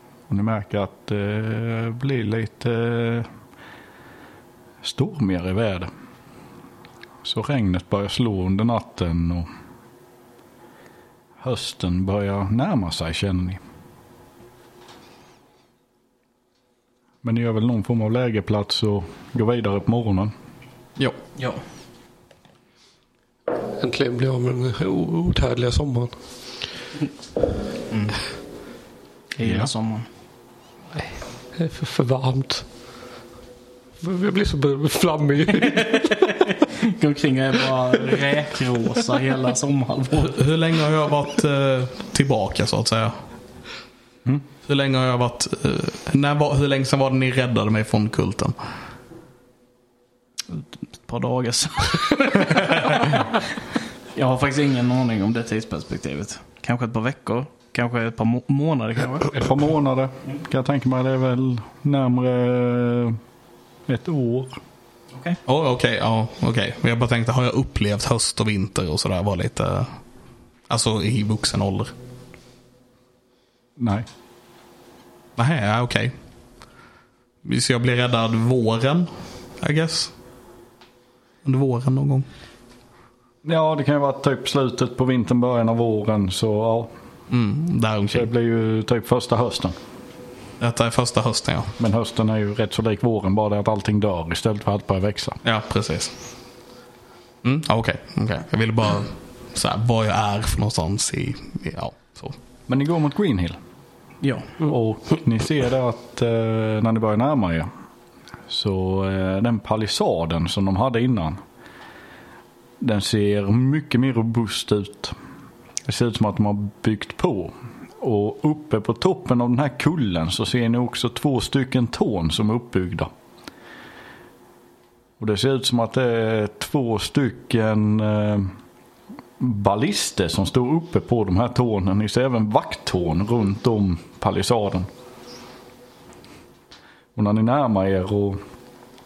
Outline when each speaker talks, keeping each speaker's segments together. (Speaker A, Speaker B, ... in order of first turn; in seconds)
Speaker A: 0.3-3.3, 4.8-5.9, 7.2-9.5, 11.4-13.6, 17.2-20.3, 59.3-63.2, 63.9-64.6, 73.8-74.1, 83.4-86.9, 88.1-89.8, 91.8-95.4, 102.7-103.6, 104.6-107.7, 108.5-111.4, 112.8-115.2, 115.9-123.1, 125.2-128.5, 129.4-134.9, 137.2-138.4
Speaker B: 21.4-21.6, 27.9-28.2, 29.4-30.1, 35.6-40.4, 50.5-53.3, 54.1-59.5, 65.1-65.4, 104.2-104.5
Speaker C: 23.8-26.1, 31.6-32.7, 34.0-36.1
Speaker D: 40.2-43.1, 44.7-48.5, 65.5-70.0, 70.7-71.9, 75.4-76.1, 77.4-80.1, 81.5-82.3, 87.3-88.3, 90.6-91.7, 95.4-96.1, 97.4-102.4